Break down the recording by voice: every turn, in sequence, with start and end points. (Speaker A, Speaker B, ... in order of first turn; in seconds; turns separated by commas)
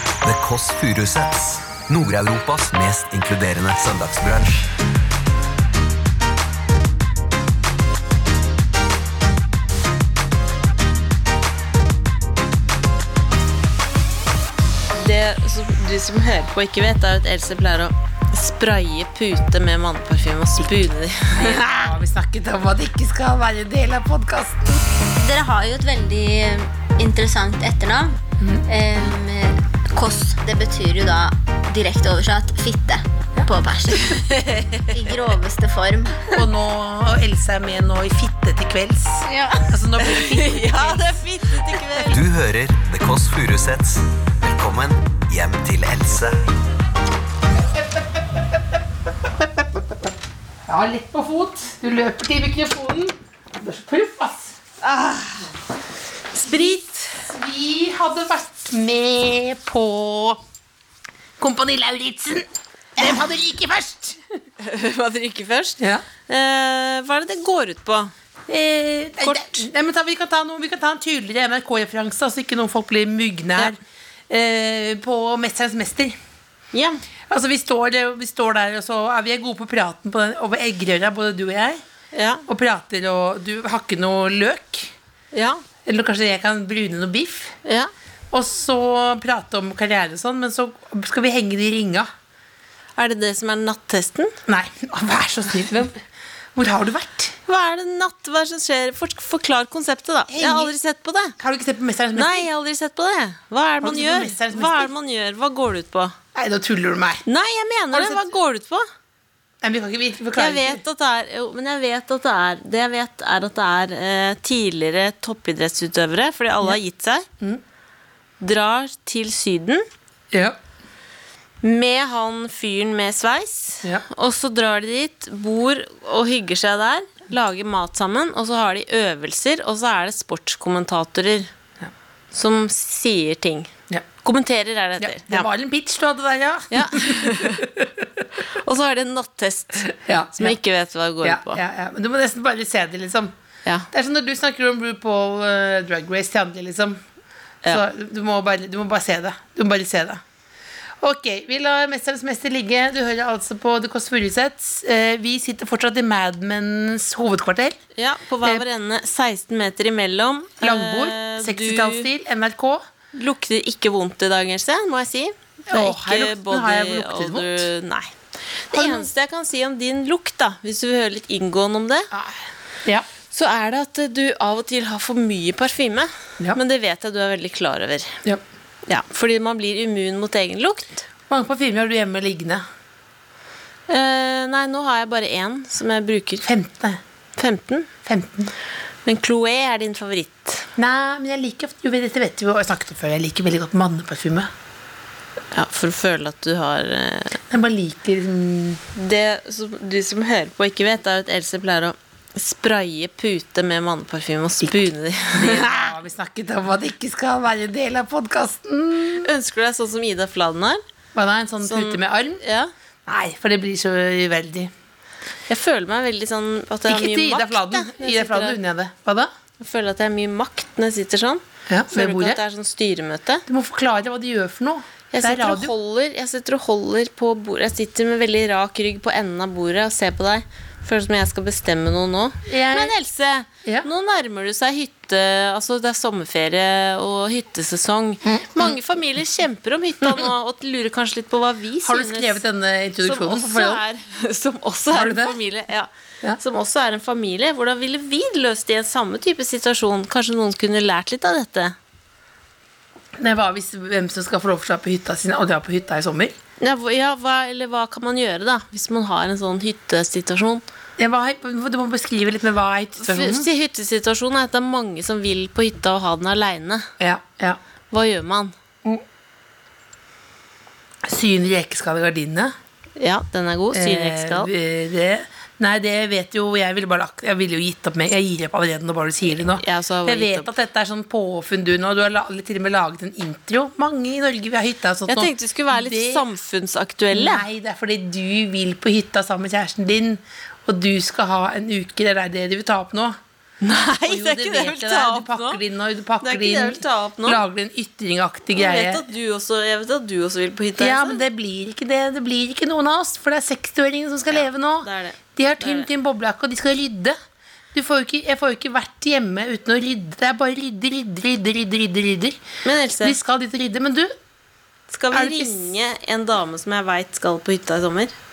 Speaker A: 0.2-4.7, Speaker B: 14.9-21.7, Speaker C: 20.6-24.6, Speaker D: 24.7-34.3, Speaker C: 28.4-28.7, Speaker B: 34.1-34.9, Speaker D: 34.9-36.4, Speaker C: 36.3-41.2, Speaker D: 39.2-39.7, Speaker B: 40.0-42.2, Speaker A: 42.1-46.4, Speaker C: 50.7-54.6, Speaker B: 54.8-55.5, Speaker C: 56.4-60.4, Speaker B: 56.4-57.0, Speaker C: 61.4-64.2, Speaker B: 64.6-68.1, Speaker C: 65.8-66.0, Speaker C: 68.5-73.8, Speaker B: 69.2-69.7, Speaker C: 74.3-76.2, Speaker B: 76.7-77.0, Speaker C: 77.3-81.8, Speaker B: 82.1-82.5, Speaker C: 82.5-84.9, Speaker B: 85.3-85.6, Speaker C: 85.9-87.6, Speaker B: 87.7-87.9, Speaker C: 88.3-92.1, Speaker B: 93.0-94.4, Speaker C: 94.5-96.0, Speaker C: 96.5-97.4, Speaker B: 97.5-101.3, Speaker C: 100.3-100.7, Speaker C: 101.4-102.5, Speaker B: 102.2-106.2, Speaker C: 103.8-104.9, Speaker C: 106.3-107.2, Speaker B: 107.3-108.8, Speaker C: 107.9-108.3, Speaker C: 109.6-110.8, Speaker B: 110.4-117.2, Speaker B: 118.4-119.8, Speaker C: 120.3-120.6, Speaker B: 121.6-131.5, Speaker B: 132.3-133.7, Speaker B: 134.2-135.5, Speaker C: 135.0-138.2, Speaker B: 136.7-137.7, Speaker B: 138.4-141.6, Speaker C: 139.9-140.6, Speaker C: 141.2-143.3, Speaker C: 143.9-147.0, Speaker C: 147.7-150.2, Speaker C: 151.0-157.8, Speaker B: 158.0-162.1, Speaker C: 160.6-162.8, Speaker B: 163.1-172.1, Speaker C: 165.7-167.7, Speaker C: 168.7-169.1, Speaker C: 172.1-173.1, Speaker B: 173.3-178.2, Speaker B: 178.9-181.1, Speaker C: 181.3-182.6, Speaker B: 183.9-186.4, Speaker C: 186.4-187.0, Speaker B: 187.4-187.9, Speaker C: 188.1-188.5, Speaker B: 189.1-190.7, Speaker C: 190.8-194.5, Speaker B: 195.5-197.4, Speaker C: 197.5-198.8, Speaker B: 198.9-205.9, Speaker C: 204.6-209.3, Speaker B: 209.2-210.8, Speaker C: 211.2-212.4, Speaker B: 211.6-212.7, Speaker C: 213.1-214.7, Speaker B: 215.5-218.6, Speaker C: 216.9-219.3, Speaker B: 219.6-223.4, Speaker C: 221.7-222.4, Speaker C: 223.5-225.7, Speaker B: 225.1-242.4, Speaker C: 232.5-232.9, Speaker C: 241.8-243.8, Speaker B: 243.0-251.8, Speaker C: 244.9-245.4, Speaker C: 253.2-256.4, Speaker B: 256.6-260.6, Speaker C: 261.0-263.5, Speaker B: 263.0-266.9, Speaker C: 267.0-267.6, Speaker B: 267.9-268.5, Speaker C: 271.0-272.5, Speaker B: 273.0-274.5, Speaker C: 273.7-286.2, Speaker B: 279.5-280.5, Speaker B: 285.1-287.5, Speaker C: 287.1-293.2, Speaker B: 293.6-295.6, Speaker C: 294.0-299.1, Speaker B: 296.2-297.4, Speaker B: 298.5-301.2, Speaker C: 300.8-307.2, Speaker B: 304.8-305.9, Speaker C: 307.7-312.4, Speaker B: 312.6-313.2, Speaker C: 313.0-314.1, Speaker B: 314.9-318.1, Speaker C: 315.1-315.6